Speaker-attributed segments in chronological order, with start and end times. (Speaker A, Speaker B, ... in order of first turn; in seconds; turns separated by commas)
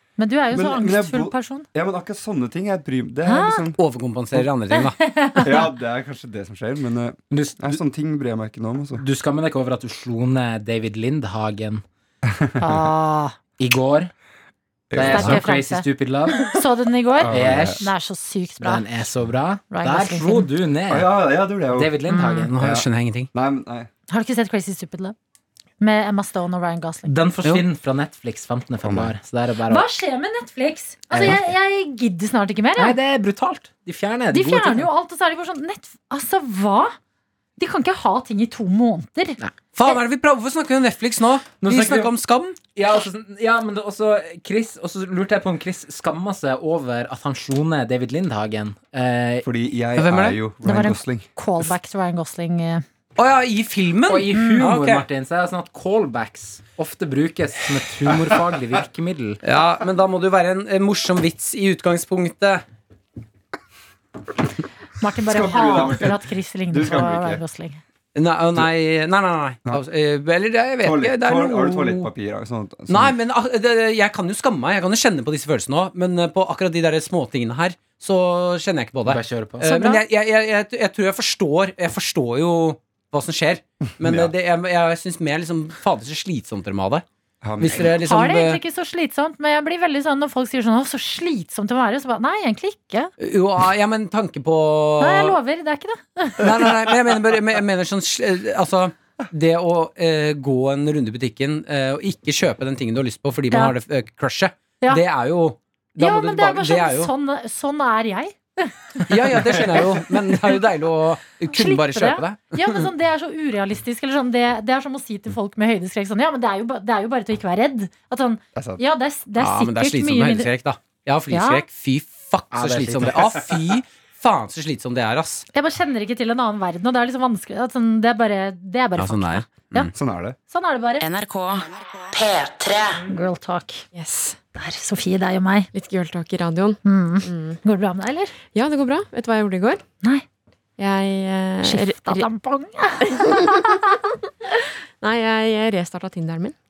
Speaker A: 0.2-1.6, Speaker B: 0.5-3.8, Speaker A: 3.2-3.7, Speaker C: 3.8-5.0, Speaker A: 4.7-5.7, Speaker B: 5.4-9.0, Speaker D: 7.3-7.8, Speaker D: 9.0-11.8, Speaker B: 12.3-12.8, Speaker A: 12.6-13.3, Speaker D: 13.6-14.1, Speaker B: 14.9-15.4, Speaker D: 14.9-16.5, Speaker A: 15.0-15.9, Speaker A: 16.4-18.9, Speaker B: 17.2-17.8, Speaker D: 17.3-17.9, Speaker D: 18.6-21.2, Speaker A: 19.7-20.5, Speaker B: 20.9-22.0, Speaker D: 21.7-22.6, Speaker A: 22.1-22.5, Speaker C: 22.5-23.3, Speaker B: 22.6-23.9, Speaker A: 24.1-25.1, Speaker A: 25.8-27.1, Speaker D: 27.1-29.9, Speaker B: 28.8-29.1, Speaker A: 29.7-33.0, Speaker D: 31.1-31.4, Speaker D: 32.8-34.9, Speaker A: 34.3-36.9, Speaker A: 37.6-39.4, Speaker C: 39.7-42.5, Speaker D: 41.6-42.1, Speaker D: 42.7-49.5, Speaker B: 49.4-51.2, Speaker C: 50.0-50.4, Speaker A: 50.6-52.8, Speaker C: 53.2-55.0, Speaker D: 54.1-59.4, Speaker C: 59.4-62.6, Speaker A: 65.0-67.8, Speaker B: 65.3-67.4, Speaker C: 68.1-72.1, Speaker B: 70.8-73.1, Speaker C: 72.9-87.0, Speaker D: 79.0-79.7, Speaker A: 79.6-80.0, Speaker B: 84.0-84.3, Speaker B: 87.4-87.9, Speaker C: 87.6-88.6, Speaker A: 87.9-93.1, Speaker C: 93.2-95.4, Speaker A: 95.0-96.7, Speaker C: 96.4-107.1, Speaker A: 106.0-110.0, Speaker C: 109.1-112.8, Speaker A: 111.5-120.5, Speaker B: 118.5-118.8, Speaker C: 119.4-125.4, Speaker A: 121.3-121.6, Speaker D: 122.5-123.4, Speaker A: 125.5-129.8, Speaker C: 129.0-129.9, Speaker B: 129.9-130.4, Speaker A: 130.5-131.1, Speaker E: 131.0-133.0, Speaker A: 133.1-133.8, Speaker F: 133.9-134.4, Speaker A: 134.5-135.7, Speaker F: 135.7-137.6, Speaker A: 136.8-138.3, Speaker F: 138.5-139.8, Speaker F: 140.8-142.2, Speaker A: 141.6-144.0, Speaker F: 143.1-143.3, Speaker F: 145.0-146.5